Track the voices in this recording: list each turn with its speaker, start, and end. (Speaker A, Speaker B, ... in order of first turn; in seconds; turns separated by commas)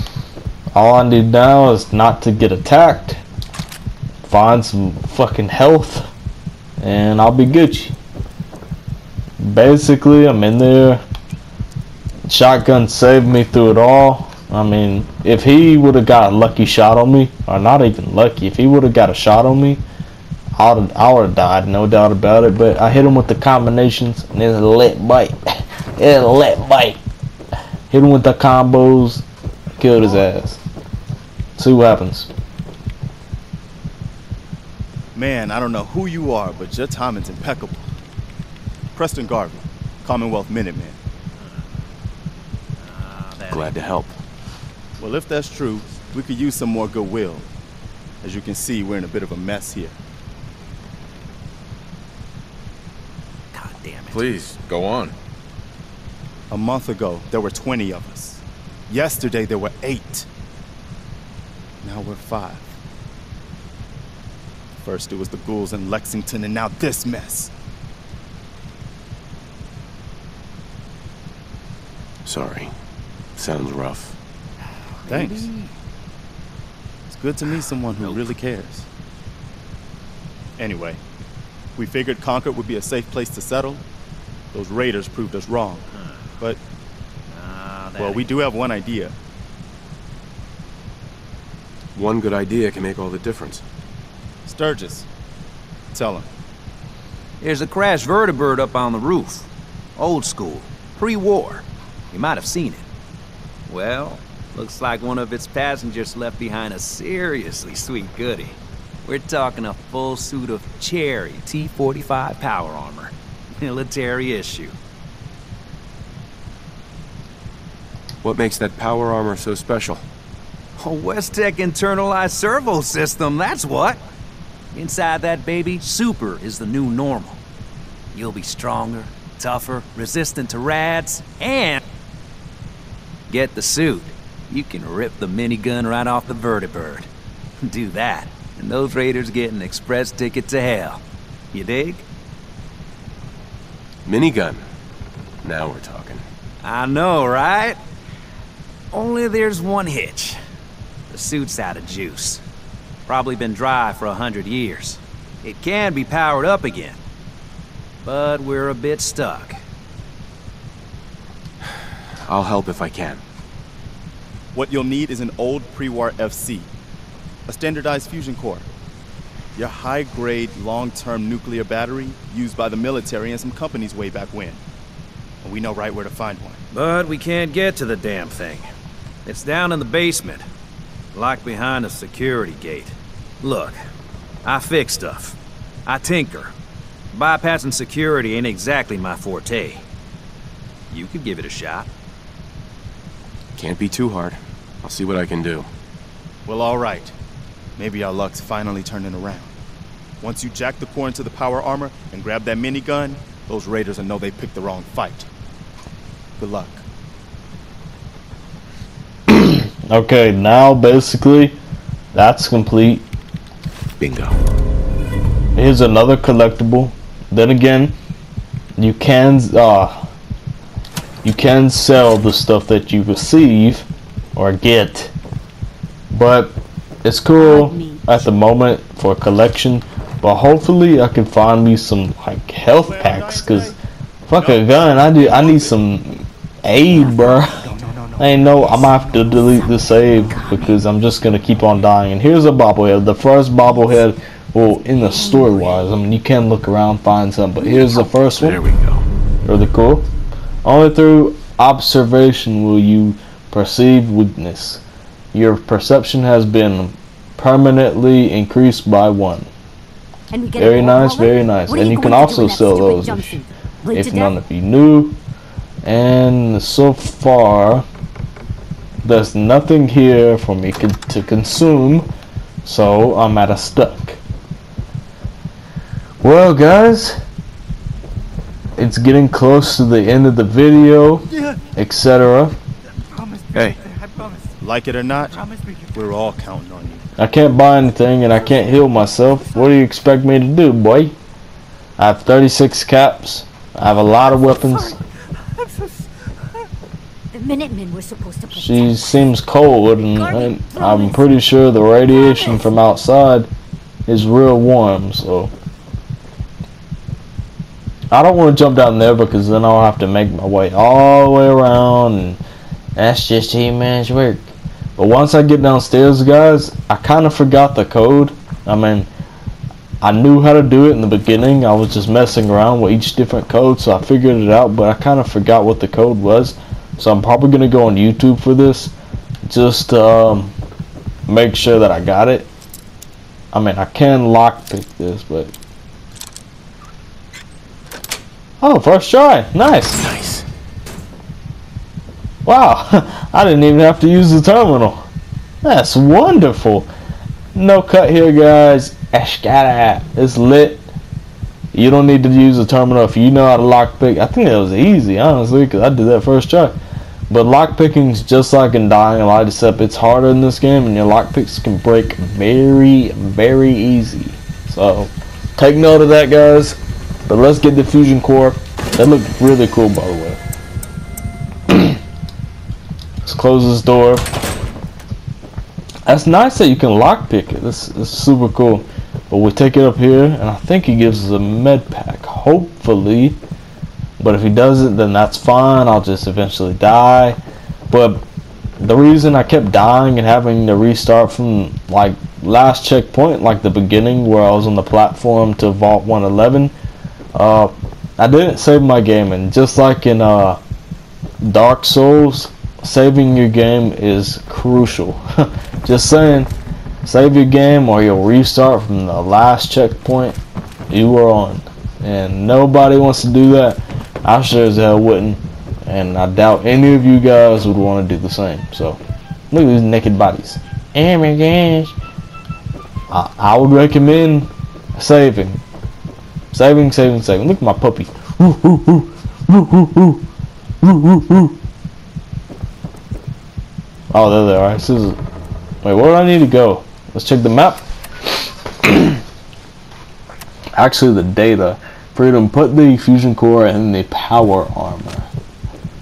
Speaker A: 0.7-3.2, Speaker A: 4.2-6.1, Speaker A: 6.8-7.9, Speaker A: 9.4-11.0, Speaker A: 12.2-19.8, Speaker A: 20.6-27.0, Speaker A: 27.9-29.2, Speaker A: 29.8-30.6, Speaker A: 31.6-32.3, Speaker B: 35.1-37.9, Speaker B: 38.9-41.0, Speaker C: 43.1-43.7, Speaker D: 43.5-44.2, Speaker B: 45.0-47.5, Speaker B: 48.2-50.0, Speaker C: 53.5-54.2, Speaker D: 54.1-55.1, Speaker B: 56.5-60.3, Speaker B: 61.8-62.7, Speaker B: 64.8-67.5, Speaker D: 72.2-72.7, Speaker D: 73.3-74.2, Speaker B: 75.1-75.5, Speaker B: 77.1-78.9, Speaker B: 80.6-81.0, Speaker B: 81.8-83.8, Speaker B: 84.5-85.9, Speaker C: 87.4-88.2, Speaker B: 88.0-89.1, Speaker D: 91.9-93.6, Speaker B: 94.5-95.1, Speaker B: 95.9-96.3, Speaker C: 97.4-99.4, Speaker C: 100.0-102.8, Speaker C: 103.7-114.7, Speaker D: 118.2-120.0, Speaker C: 120.8-124.0, Speaker C: 124.7-127.4, Speaker C: 128.1-131.8, Speaker C: 133.3-137.1, Speaker C: 137.6-141.0, Speaker C: 141.5-142.0, Speaker D: 144.1-144.6, Speaker D: 145.4-146.2, Speaker C: 146.6-147.8, Speaker C: 148.9-150.3, Speaker C: 151.1-152.4, Speaker C: 153.1-156.9, Speaker C: 158.0-159.6, Speaker D: 162.2-163.2, Speaker B: 164.5-166.7, Speaker B: 167.5-168.7, Speaker B: 169.6-174.6, Speaker B: 175.4-176.6, Speaker C: 176.7-178.6, Speaker C: 179.2-180.4, Speaker C: 181.1-183.8, Speaker C: 184.4-185.3, Speaker C: 185.9-186.5, Speaker C: 187.1-189.8, Speaker C: 190.9-191.9, Speaker D: 193.6-195.7, Speaker B: 196.4-197.1, Speaker B: 197.8-199.5, Speaker B: 200.2-205.3, Speaker B: 206.4-206.8, Speaker A: 209.3-211.6, Speaker A: 212.1-213.1, Speaker D: 214.0-214.4, Speaker A: 215.5-217.9, Speaker A: 218.8-220.1, Speaker A: 221.2-225.1, Speaker A: 226.1-233.7, Speaker E: 227.4-228.3, Speaker B: 232.7-233.8, Speaker A: 234.3-248.6, Speaker B: 234.3-235.7, Speaker E: 236.9-240.8, Speaker E: 244.9-245.9, Speaker D: 247.6-249.0, Speaker A: 249.4-250.1, Speaker A: 250.6-254.8, Speaker A: 255.3-259.5, Speaker E: 260.3-264.4, Speaker A: 260.6-263.4, Speaker A: 263.9-265.2, Speaker A: 265.8-267.9, Speaker A: 269.0-272.1, Speaker A: 272.6-274.2, Speaker A: 276.2-277.2, Speaker A: 278.8-282.6, Speaker D: 283.5-283.8, Speaker B: 284.6-285.4, Speaker B: 285.9-287.0, Speaker A: 287.2-291.1, Speaker A: 292.0-295.0, Speaker E: 294.3-294.9, Speaker E: 297.3-299.2, Speaker A: 298.5-303.5, Speaker E: 300.1-301.3, Speaker E: 302.1-302.7, Speaker A: 304.1-305.5, Speaker A: 308.1-312.4, Speaker A: 312.9-319.1, Speaker A: 320.0-328.9, Speaker A: 329.4-330.5, Speaker A: 331.3-332.5, Speaker A: 333.5-335.5, Speaker A: 338.6-340.0, Speaker D: 340.0-340.4, Speaker A: 342.4-345.1, Speaker A: 345.6-346.9, Speaker A: 347.5-350.9, Speaker A: 351.7-356.7, Speaker A: 357.3-370.4, Speaker A: 371.7-371.9, Speaker A: 373.2-374.3, Speaker A: 376.1-383.4, Speaker A: 384.2-387.4, Speaker A: 387.9-388.2, Speaker A: 388.8-396.7, Speaker A: 397.3-400.6, Speaker A: 401.4-406.5, Speaker A: 407.0-410.4, Speaker A: 410.9-419.0, Speaker A: 419.5-421.9, Speaker A: 423.1-425.6, Speaker A: 426.5-430.3, Speaker A: 430.8-431.6, Speaker A: 434.1-435.2, Speaker A: 435.8-437.8, Speaker A: 438.8-439.2, Speaker A: 440.8-445.3